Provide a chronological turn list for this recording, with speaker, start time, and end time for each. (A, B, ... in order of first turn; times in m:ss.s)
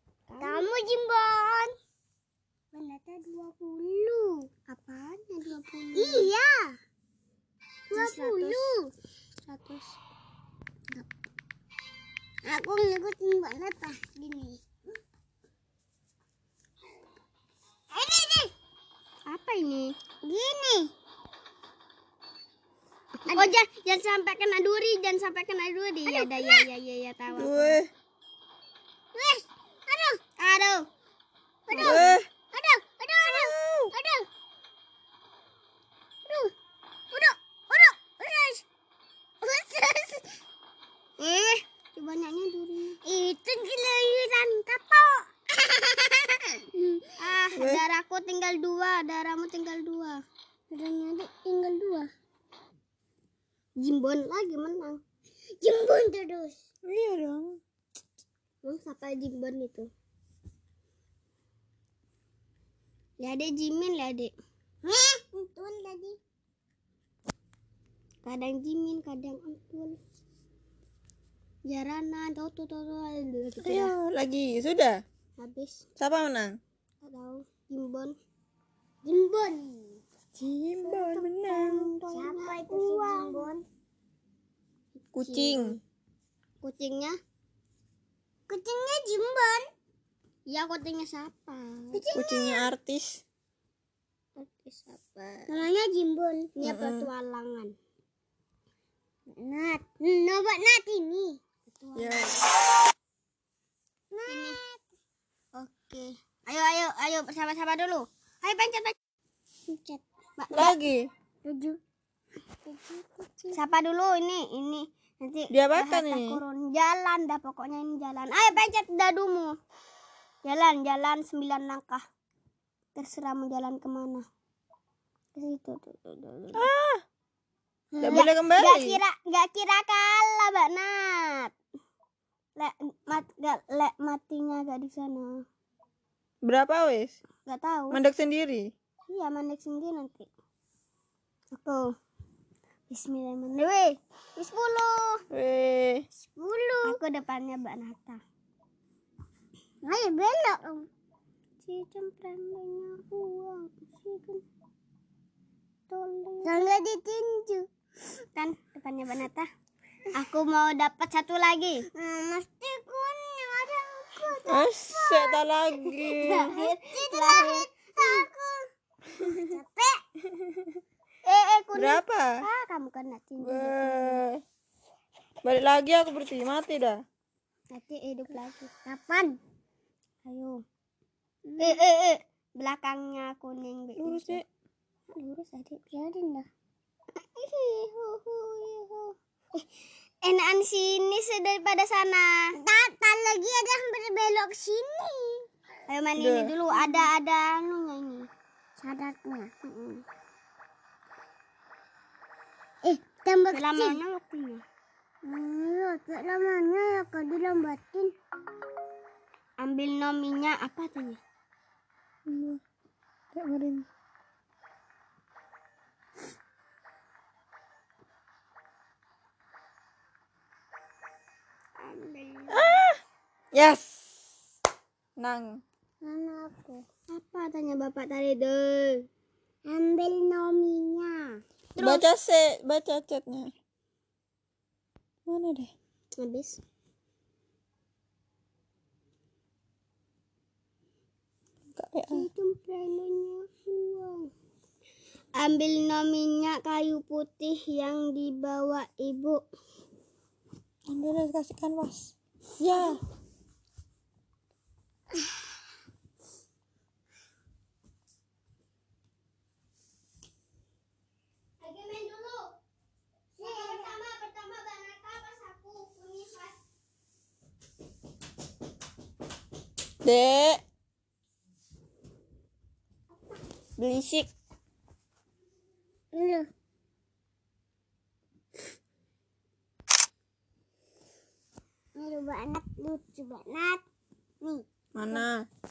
0:00.3-0:00.8 A
0:00.4-0:01.7 B
0:02.7-0:04.5 B
0:04.7-0:06.3 A
0:05.9-0:06.8 B
0:07.9-0:08.7 A
0:07.9-0:08.9 B
0:09.5-0:10.0 A
0:12.4-0:14.6 B
0:17.9-0:18.5 B
0:19.3-0:20.0 A
0:20.2-0:20.9 B
0:23.3-0:23.5 B
0:23.3-0:27.8 A
0:26.1-0:26.7 B
0:27.4-0:27.9 C
0:29.1-0:30.2 B
0:30.4-0:30.9 A
0:31.7-0:34.3 B
0:31.7-0:32.2 A
0:31.8-0:32.3 C
0:33.2-0:33.9 C
0:36.3-0:36.5 B
0:37.1-0:38.7 B
0:39.4-0:40.3 B
0:41.2-0:43.0 A
0:43.0-0:47.1 B
0:47.2-0:50.2 A
0:47.6-0:47.8 C
0:50.7-0:52.1 B
0:53.8-0:55.0 A
0:55.6-0:56.6 B
0:56.9-0:57.6 C
0:58.6-0:59.9 A
1:03.2-1:04.3 A
1:04.8-1:06.2 B
1:08.2-1:10.0 A
1:11.7-1:14.0 A
1:13.6-1:15.0 C
1:15.4-1:15.9 A
1:16.0-1:16.6 C
1:17.0-1:18.2 A
1:19.0-1:20.0 B
1:20.4-1:21.9 C
1:20.9-1:23.5 A
1:22.1-1:23.6 B
1:25.0-1:25.8 A
1:25.1-1:25.8 C
1:26.6-1:27.2 A
1:28.5-1:29.7 B
1:30.5-1:32.1 A
1:31.9-1:32.6 B
1:32.1-1:33.2 C
1:34.4-1:35.5 A
1:35.5-1:36.5 B
1:36.6-1:37.7 A
1:36.6-1:37.1 C
1:39.3-1:41.4 B
1:41.7-1:42.5 A
1:42.0-1:42.5 C
1:44.1-1:44.8 B
1:44.3-1:44.6 A
1:45.5-1:49.0 A
1:49.7-1:50.0 B
1:50.4-1:50.8 A
1:50.5-1:51.1 C
1:51.4-1:51.8 B
1:52.6-1:53.6 B
1:53.5-1:59.6 A
1:55.5-1:56.4 C
2:00.4-2:02.0 A
2:03.0-2:04.3 A
2:05.4-2:06.7 A
2:06.5-2:07.0 C
2:07.9-2:08.3 B
2:08.0-2:09.0 C
2:08.1-2:11.5 A
2:12.6-2:15.4 A
2:16.4-2:17.2 C
2:17.5-2:18.0 A
2:17.9-2:18.7 C
2:19.1-2:20.3 A
2:21.5-2:21.9 A
2:22.9-2:25.2 A
2:25.3-2:26.0 C
2:26.2-2:27.0 B
2:26.8-2:28.2 A
2:29.8-2:30.9 B
2:31.6-2:34.4 A
2:35.9-2:36.6 A
2:36.4-2:37.7 B
2:38.4-2:39.5 A
2:40.1-2:41.9 A
2:41.9-2:50.0 B
2:44.5-2:46.5 C
2:46.2-2:48.3 A
2:51.3-2:54.2 A
2:51.8-2:52.4 C
2:53.4-2:54.4 C
2:55.4-2:57.0 C
2:57.7-2:58.7 A
2:58.8-2:59.4 B
3:00.2-3:00.6 A
3:01.5-3:01.8 B
3:01.6-3:04.4 A
3:04.0-3:04.5 C
3:05.2-3:05.8 A
3:05.8-3:06.5 B
3:07.2-3:09.7 A
3:10.2-3:12.5 A
3:12.6-3:15.5 B
3:15.9-3:18.3 A
3:16.2-3:16.5 C
3:16.7-3:17.0 B
3:18.8-3:19.5 B
3:19.6-3:20.0 A
3:22.8-3:24.0 B
3:23.5-3:24.6 A
3:25.2-3:28.1 B
3:29.6-3:31.2 A
3:32.3-3:32.6 C
3:33.3-3:33.9 C
3:41.8-3:42.8 A
3:42.5-3:43.0 C
3:43.5-3:44.4 C
3:45.2-3:45.6 C
3:46.0-3:46.8 B
3:47.1-3:49.1 A
3:49.7-3:51.4 B
3:51.8-3:52.1 A
3:51.8-3:53.5 C
3:55.3-3:55.7 C
3:56.2-3:56.6 A
4:01.8-4:02.3 C
4:02.1-4:04.3 A
4:05.4-4:09.4 A
4:10.9-4:13.0 C
4:21.6-4:22.5 A
4:23.4-4:24.0 B
4:23.4-4:26.6 A
4:30.0-4:30.6 C
4:33.8-4:34.3 C
4:36.1-4:36.5 B
4:42.0-4:43.8 B
4:44.4-4:45.2 B
4:45.0-4:45.4 C